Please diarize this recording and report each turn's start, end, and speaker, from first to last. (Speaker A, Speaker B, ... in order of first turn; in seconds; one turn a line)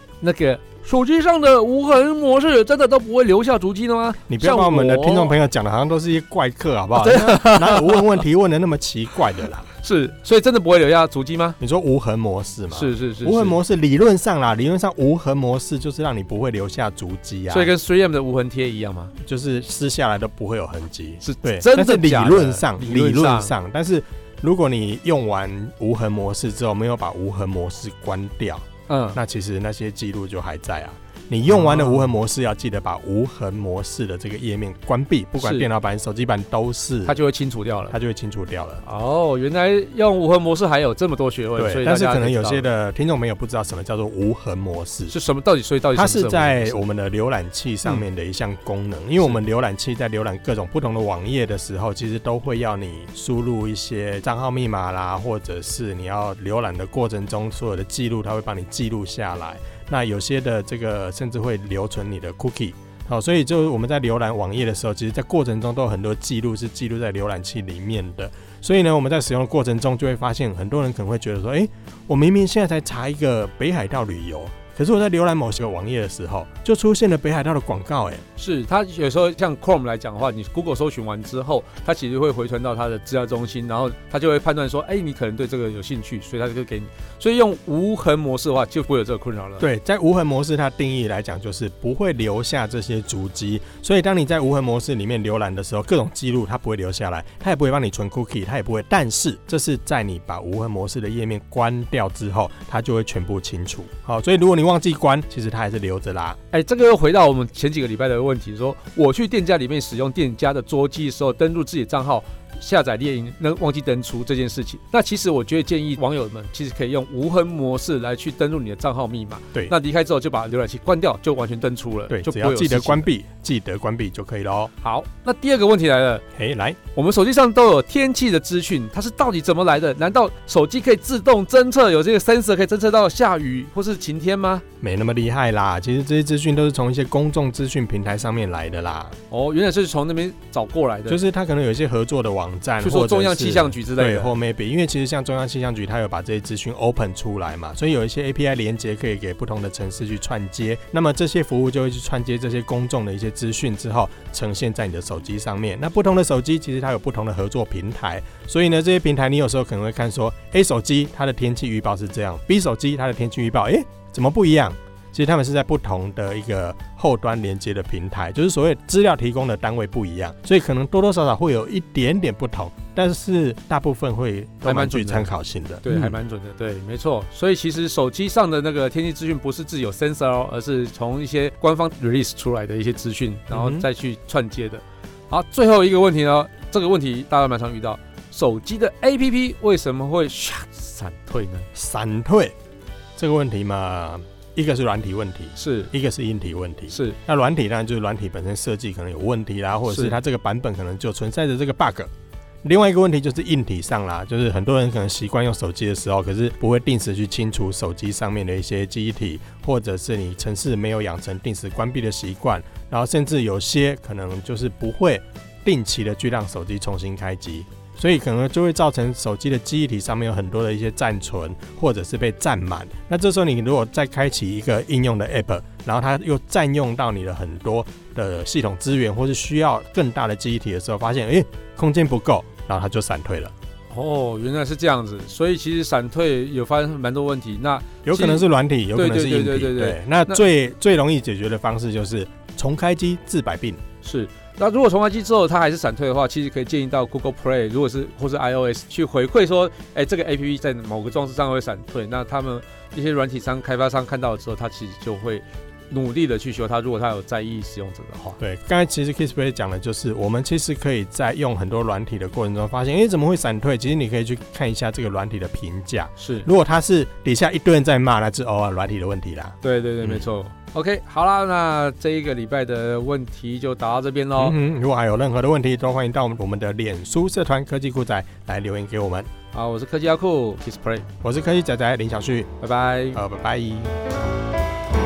Speaker A: 0.2-5.3
Speaker B: 4.3-9.7
Speaker A: 7.0-8.2
Speaker A: 9.8-11.6
Speaker B: 11.6-17.7
Speaker A: 12.7-13.6
Speaker A: 17.5-19.1
Speaker B: 19.2-37.2
Speaker A: 21.2-23.5
Speaker A: 28.9-29.2
Speaker A: 31.5-32.1
Speaker A: 35.4-35.7
Speaker A: 37.0-38.0
Speaker B: 37.9-38.8
Speaker A: 38.8-42.6
Speaker B: 41.6-45.1
Speaker A: 45.1-46.8
Speaker B: 46.0-78.2
Speaker A: 78.4-89.7
Speaker B: 89.6-106.4
Speaker A: 106.5-123.1
Speaker B: 122.1-124.7
Speaker A: 124.8-126.2
Speaker B: 126.3-126.8
Speaker A: 127.0-134.7
Speaker B: 134.8-139.2
Speaker A: 139.3-141.2
Speaker B: 141.1-176.2
Speaker A: 142.8-144.3
Speaker A: 174.7-175.3
Speaker A: 175.8-191.7
Speaker B: 183.5-183.8
Speaker B: 191.7-192.6
Speaker B: 193.2-202.1
Speaker A: 195.6-195.9
Speaker A: 196.9-197.2
Speaker A: 199.9-200.2
Speaker B: 202.6-233.5
Speaker A: 233.9-240.4
Speaker B: 238.1-243.8
Speaker A: 244.0-258.4
Speaker B: 258.4-270.2
Speaker A: 266.2-266.5
Speaker A: 269.6-274.6
Speaker B: 274.4-279.3
Speaker A: 279.5-281.1
Speaker B: 281.2-282.5
Speaker A: 282.6-283.2
Speaker B: 283.1-283.9